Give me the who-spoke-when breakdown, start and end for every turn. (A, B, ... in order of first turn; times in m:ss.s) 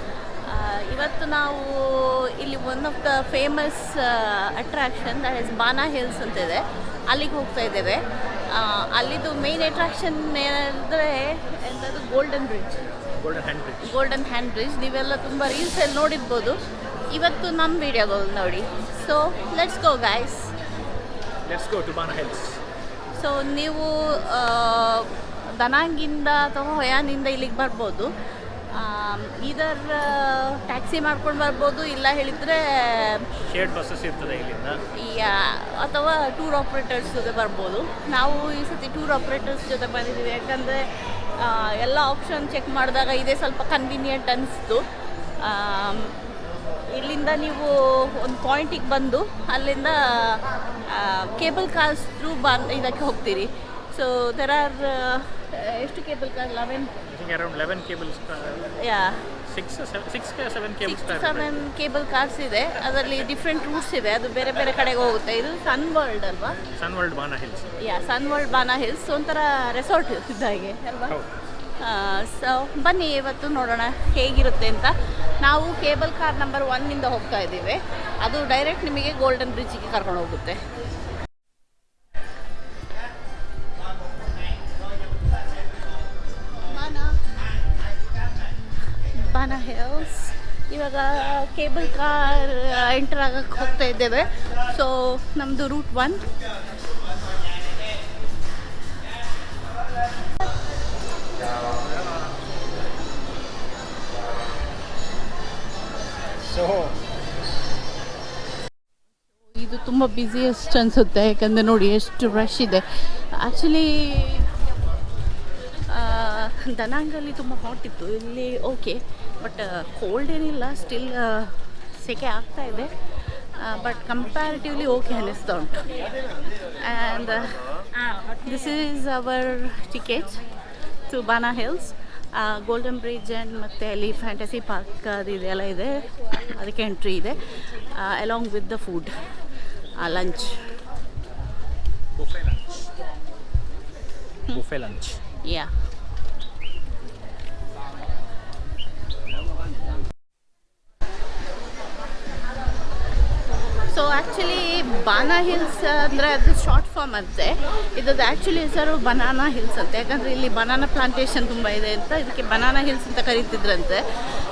0:00.4-0:12.7 A
0:13.2-0:14.0 B
0:13.8-0:16.6 A
0:17.1-0:20.5 A
0:21.4-0:22.6 B
0:23.1-0:28.1 A
0:28.7-0:33.2 A
0:33.4-0:34.8 B
0:35.0-0:40.8 A
0:41.4-0:44.8 A
0:45.4-0:46.1 A
0:46.9-0:56.9 A
0:57.1-0:58.7 B
0:58.8-0:59.2 A
0:59.4-1:01.6 B
1:00.8-1:06.6 A
1:06.7-1:07.7 B
1:07.8-1:11.2 A
1:11.8-1:20.6 A
1:26.7-1:27.1 A
1:29.1-1:36.2 A
1:46.4-1:46.9 B
1:49.5-1:54.5 A
1:55.9-2:02.9 A
2:03.5-2:05.9 A
2:06.8-2:07.6 A
2:08.3-2:10.4 A
2:11.1-2:19.2 A
2:20.0-2:20.6 A
2:22.1-2:22.7 B
2:24.5-2:25.2 B
2:25.4-2:25.7 A
2:33.9-2:44.0 A